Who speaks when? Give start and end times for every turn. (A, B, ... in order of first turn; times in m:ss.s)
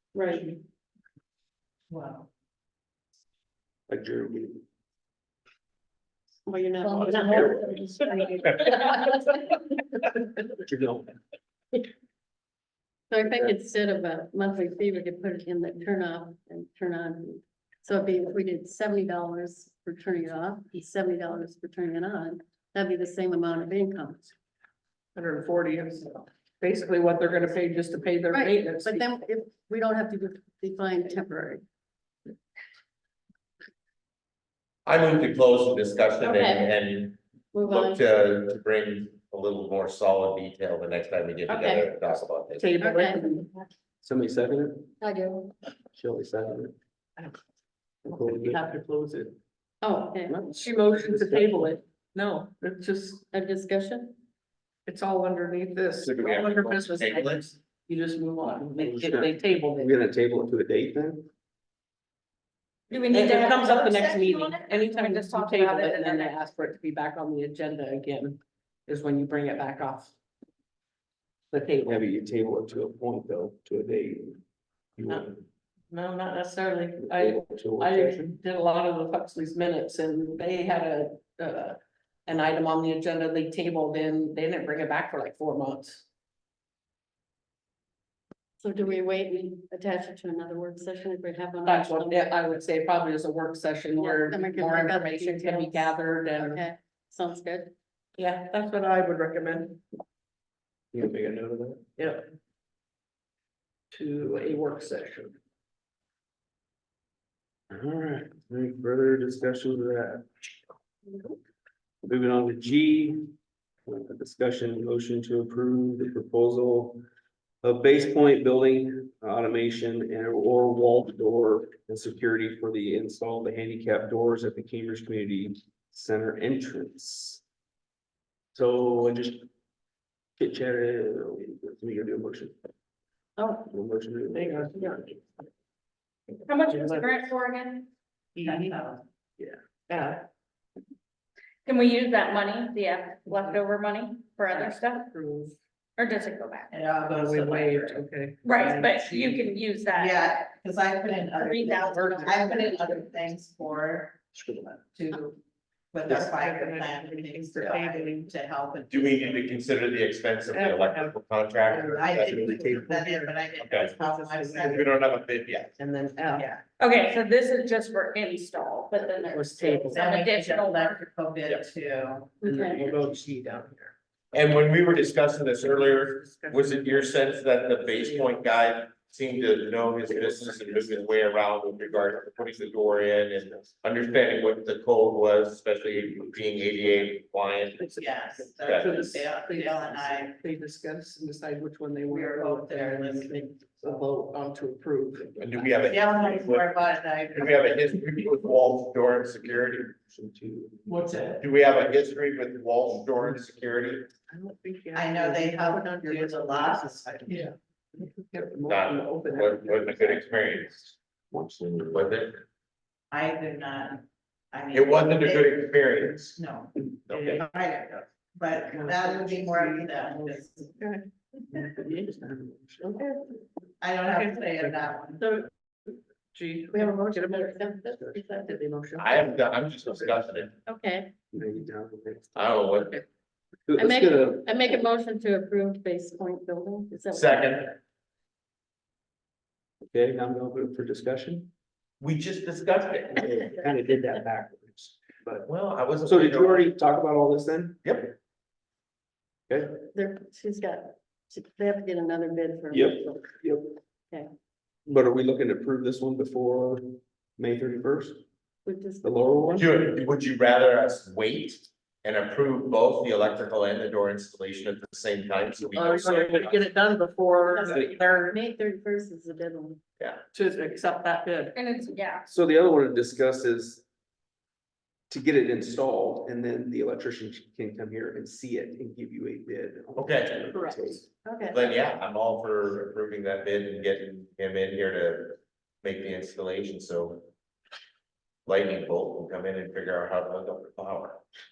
0:00.1-0:00.6 A
0:01.9-0:02.3 B
0:03.9-0:04.6 C
0:06.5-0:09.2 A
0:07.0-0:07.8 D
0:10.6-0:11.1 C
0:13.1-0:24.3 A
0:25.2-0:29.1 E
0:28.3-0:31.6 A
0:34.9-0:42.7 D
0:36.2-0:36.7 A
0:37.5-0:38.1 A
0:41.5-0:41.9 A
0:42.6-0:43.5 E
0:42.8-0:43.4 A
0:44.0-0:44.9 C
0:46.0-0:46.8 C
0:48.0-0:49.4 E
0:48.1-0:48.7 C
0:49.8-0:50.4 A
0:50.3-0:51.7 C
0:50.5-0:53.2 E
0:53.3-0:54.2 A
0:54.9-1:00.0 E
0:56.0-0:57.5 D
0:58.8-1:01.3 C
1:02.9-1:06.4 F
1:03.1-1:10.1 E
1:11.5-1:12.0 E
1:11.8-1:14.4 C
1:15.0-1:15.4 C
1:15.9-1:26.0 E
1:17.1-1:18.4 C
1:28.6-1:32.3 A
1:31.7-1:36.6 E
1:34.0-1:37.7 A
1:38.2-1:39.8 E
1:40.9-1:41.9 C
1:42.0-1:42.3 E
1:43.9-1:45.4 E
1:47.7-1:50.5 C
1:52.1-1:53.3 C
1:53.8-1:57.0 C
1:57.6-2:07.4 C
2:08.5-2:09.5 C
2:10.4-2:12.6 C
2:13.4-2:13.7 A
2:13.7-2:15.2 C
2:14.3-2:15.2 E
2:16.5-2:17.9 F
2:16.6-2:17.3 E
2:18.4-2:18.8 E
2:18.4-2:19.0 B
2:19.9-2:20.2 E
2:21.7-2:25.1 F
2:23.3-2:23.6 E
2:24.5-2:25.6 E
2:26.0-2:26.7 F
2:26.7-2:35.4 B
2:27.1-2:29.2 E
2:28.4-2:30.2 F
2:31.3-2:32.8 F
2:31.8-2:33.0 E
2:34.4-2:34.7 C
2:35.9-2:39.7 B
2:36.1-2:38.3 E
2:38.9-2:42.5 D
2:40.5-2:41.2 E
2:41.7-2:44.8 E
2:41.9-2:44.9 B
2:42.2-2:42.8 C
2:43.6-2:43.9 D
2:44.6-2:45.7 D
2:45.8-2:46.5 E
2:46.3-2:46.6 B
2:46.8-2:51.0 F
2:49.3-2:50.1 E
2:49.9-2:52.4 B
2:52.4-2:52.8 A
2:52.4-2:53.9 E
2:54.3-3:08.0 D
2:55.7-2:57.2 E
2:57.9-2:58.4 E
3:07.9-3:10.4 B
3:08.6-3:09.1 D
3:08.7-3:15.8 E
3:12.1-3:13.5 B
3:15.4-3:16.8 D
3:15.9-3:17.7 B
3:17.3-3:19.9 D
3:20.1-3:20.9 C
3:20.9-3:21.4 E
3:21.4-3:24.1 D
3:24.3-3:30.2 E
3:24.9-3:27.5 B
3:28.7-3:30.8 D
3:31.3-3:32.1 C
3:31.9-3:32.4 D
3:33.1-3:35.7 B
3:34.7-3:36.4 D
3:36.4-3:40.7 B
3:37.1-3:37.5 D
3:37.1-3:37.4 E
3:38.7-3:41.1 E
3:41.6-3:42.8 C
3:41.6-3:43.3 E
3:43.8-3:45.3 B
3:44.1-3:44.8 E
3:46.3-3:49.3 E
3:46.7-3:48.6 A
3:49.0-3:50.5 D
3:50.7-3:51.1 A
3:51.3-3:52.6 C
3:52.4-3:53.0 D
3:53.7-3:54.6 C
3:53.8-3:57.7 A
3:57.1-3:57.8 D
3:59.9-4:01.5 C
4:02.0-4:03.4 D
4:03.2-4:05.5 C
4:05.4-4:06.7 D
4:06.0-4:07.8 C
4:07.8-4:08.1 D
4:09.5-4:09.8 C
4:09.9-4:13.4 A
4:12.7-4:13.8 C
4:14.9-4:18.2 C
4:18.6-4:19.7 A
4:19.0-4:19.7 C
4:19.6-4:26.6 D
4:25.7-4:28.4 E
4:27.4-4:29.8 A
4:30.3-4:31.6 E
4:31.6-4:32.2 F
4:32.3-4:33.8 C
4:35.1-4:41.1 C
4:40.0-4:40.5 D
4:40.5-4:40.8 E
4:41.2-4:41.8 A
4:41.5-4:47.3 D
4:48.5-4:51.2 D